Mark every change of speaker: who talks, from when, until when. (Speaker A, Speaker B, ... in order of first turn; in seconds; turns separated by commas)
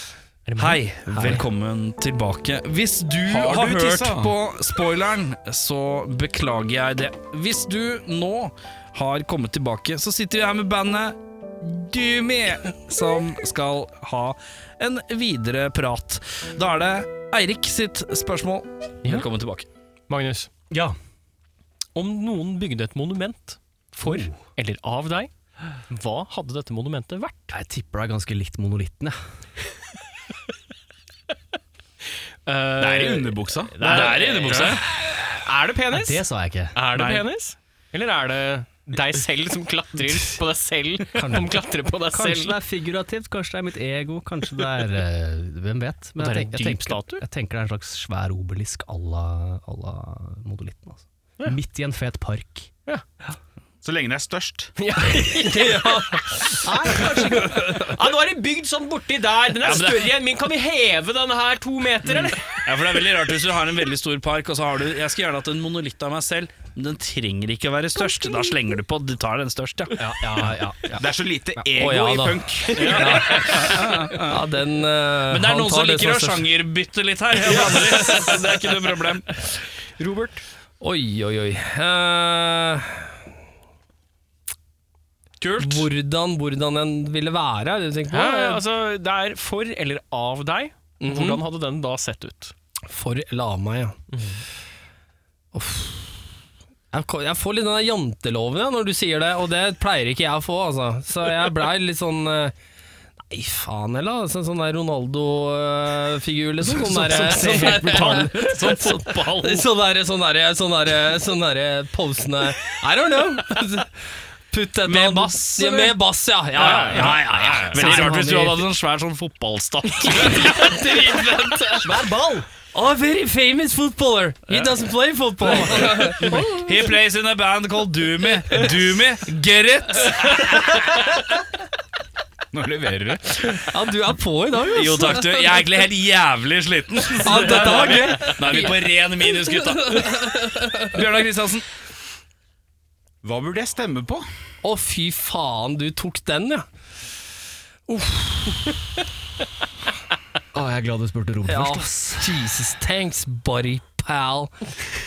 Speaker A: 0.5-1.3, Speaker B: 0.6-19.6, Speaker C: 1.1-1.4, Speaker D: 3.3-4.3, Speaker A: 20.1-20.5, Speaker A: 21.9-25.3, Speaker E: 24.0-24.3, Speaker A: 25.9-27.6, Speaker E: 27.5-29.2, Speaker A: 32.5-42.6, Speaker D: 32.8-34.0, Speaker B: 33.8-34.8, Speaker E: 35.9-36.8, Speaker B: 36.9-37.2, Speaker E: 41.1-52.7, Speaker A: 46.2-47.2, Speaker D: 53.8-54.7, Speaker A: 54.8-62.6, Speaker C: 55.4-56.2, Speaker E: 56.6-57.9, Speaker B: 59.6-60.1, Speaker B: 62.6-70.0, Speaker E: 70.0-71.0, Speaker D: 71.0-73.6, Speaker C: 71.7-73.6, Speaker B: 72.7-74.5, Speaker A: 72.8-73.1, Speaker C: 74.2-76.5, Speaker B: 75.3-79.2, Speaker A: 77.5-78.2, Speaker C: 77.5-78.3, Speaker A: 80.0-80.4, Speaker C: 80.8-83.1, Speaker B: 85.4-85.8, Speaker C: 85.5-88.6, Speaker A: 88.1-92.5, Speaker C: 91.0-91.4, Speaker C: 92.9-94.0, Speaker A: 94.1-94.4, Speaker C: 95.5-96.2, Speaker C: 96.9-102.5, Speaker C: 103.3-113.9, Speaker E: 106.6-109.0, Speaker A: 107.5-109.6, Speaker C: 114.5-118.6, Speaker B: 114.8-115.9, Speaker B: 116.5-121.2, Speaker E: 117.8-118.5, Speaker C: 120.1-122.0, Speaker E: 121.7-122.5, Speaker C: 122.7-126.7, Speaker B: 124.5-124.8, Speaker B: 125.5-130.8, Speaker D: 132.5-133.6, Speaker C: 133.6-135.6, Speaker B: 134.7-140.2, Speaker C: 137.2-138.8, Speaker D: 137.5-138.1, Speaker C: 139.4-140.9, Speaker B: 140.9-141.7, Speaker D: 143.2-144.2, Speaker C: 144.6-146.6, Speaker C: 147.9-148.8, Speaker E: 150.5-152.4, Speaker C: 151.4-154.5